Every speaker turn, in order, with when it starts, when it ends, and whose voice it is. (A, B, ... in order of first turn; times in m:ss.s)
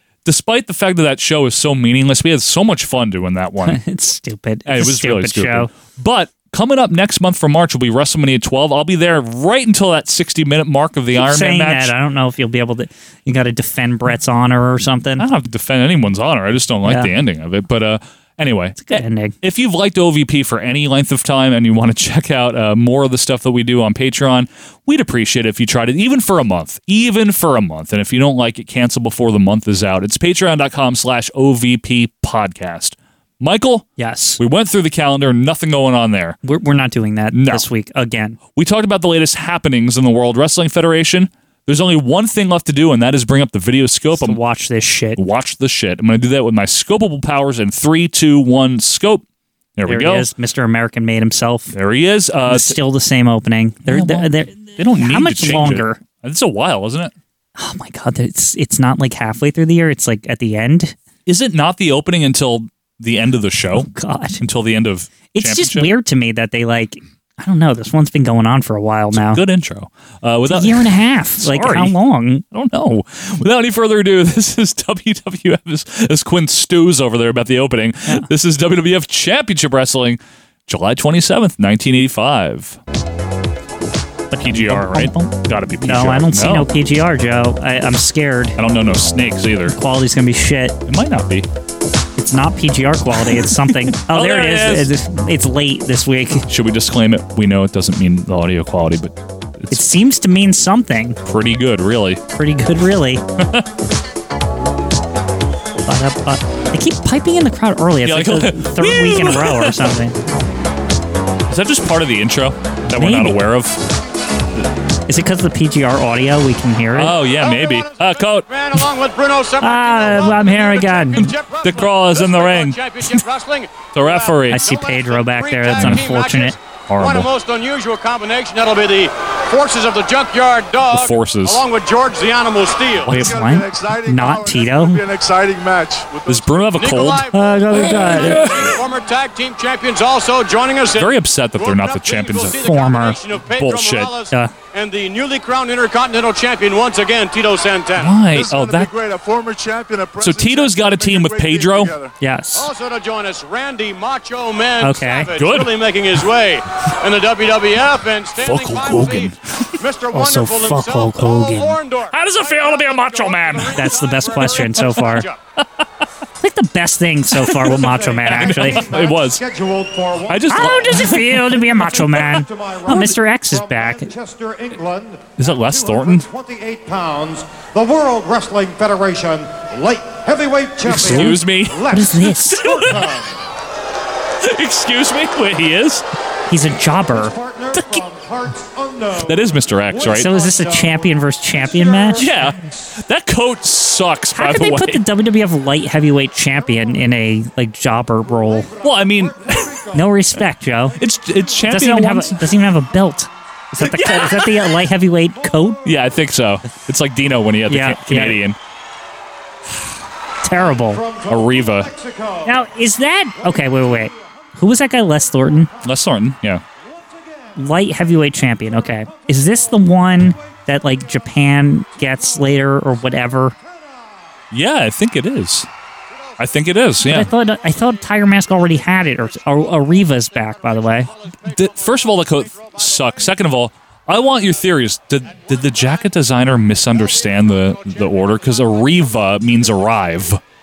0:00.2-0:03.8 A
0:03.6-0:05.7 B
0:04.7-0:11.9 A
0:11.2-0:15.2 B
0:15.2-0:36.4 A
0:16.8-0:17.1 B
0:18.9-0:19.4 B
0:34.0-0:34.4 B
0:36.4-0:38.4 B
0:37.3-0:37.6 A
0:38.6-0:44.4 A
0:44.1-0:45.2 B
0:45.2-0:49.2 A
0:49.8-0:50.3 A
0:49.9-0:51.7 B
0:51.7-0:52.8 A
0:52.5-0:56.0 B
0:53.9-0:57.1 A
0:57.6-1:01.0 B
1:01.3-1:03.9 A
1:03.7-1:04.4 B
1:04.4-1:05.9 A
1:05.3-1:09.4 B
1:09.1-1:12.0 A
1:10.5-1:12.4 B
1:12.5-1:22.8 A
1:24.3-1:28.6 B
1:24.4-1:26.7 A
1:28.6-1:29.8 A
1:29.8-1:30.8 B
1:30.9-1:31.5 A
1:32.2-1:36.4 B
1:33.2-1:34.9 A
1:36.5-1:39.9 A
1:39.7-1:41.2 B
1:41.2-1:42.2 A
1:42.3-1:43.2 B
1:43.4-1:43.7 A
1:45.8-1:50.2 B
1:48.0-1:49.8 A
1:51.5-1:53.8 A
1:53.0-1:53.4 B
1:55.1-1:57.2 B
1:56.9-1:58.5 A
1:57.2-2:13.1 C
1:59.6-2:01.3 B
2:01.2-2:02.8 A
2:03.9-2:04.6 A
2:04.5-2:06.6 B
2:05.7-2:06.1 A
2:06.9-2:07.3 A
2:10.9-2:11.6 A
2:13.1-2:17.0 D
2:13.1-2:15.0 B
2:16.3-2:18.8 A
2:16.8-2:28.2 C
2:17.3-2:18.5 B
2:21.0-2:22.9 A
2:22.6-2:23.2 B
2:23.5-2:24.1 A
2:28.0-2:28.9 A
2:28.3-2:32.2 D
2:30.2-2:32.0 A
2:32.2-2:32.7 B
2:32.6-2:45.4 C
2:34.8-2:35.3 B
2:35.4-2:35.7 A
2:38.4-2:39.7 A
2:40.1-2:41.8 B
2:42.1-2:43.9 A
2:43.7-2:45.3 B
2:46.4-2:48.9 B
2:47.4-2:49.4 A
2:47.8-2:50.9 E
2:50.3-2:52.3 A
2:50.5-2:54.1 B
2:51.7-3:03.3 E
2:55.4-2:56.3 A
3:00.8-3:03.2 A
3:00.9-3:02.8 B
3:04.4-3:06.0 A
3:06.5-3:07.4 B
3:07.1-3:12.5 E
3:07.8-3:08.0 A
3:09.2-3:10.3 A
3:10.0-3:12.5 B
3:12.2-3:15.0 A
3:14.3-3:18.7 B
3:16.7-3:17.0 E
3:18.3-3:20.1 E
3:18.8-3:19.8 A
3:19.9-3:21.0 B
3:21.0-3:22.4 A
3:21.7-3:25.9 B
3:23.7-3:24.7 A
3:25.8-3:28.6 A
3:27.7-3:28.4 B
3:30.4-3:31.0 B
3:30.9-3:32.6 E
3:31.3-3:31.9 A
3:32.4-3:35.7 B
3:35.8-3:36.6 A
3:37.6-3:43.6 B
3:39.0-3:39.9 E
3:44.5-3:45.7 A
3:46.4-3:47.3 A
3:47.1-3:51.1 B
3:51.5-4:00.4 A
3:52.9-3:53.2 C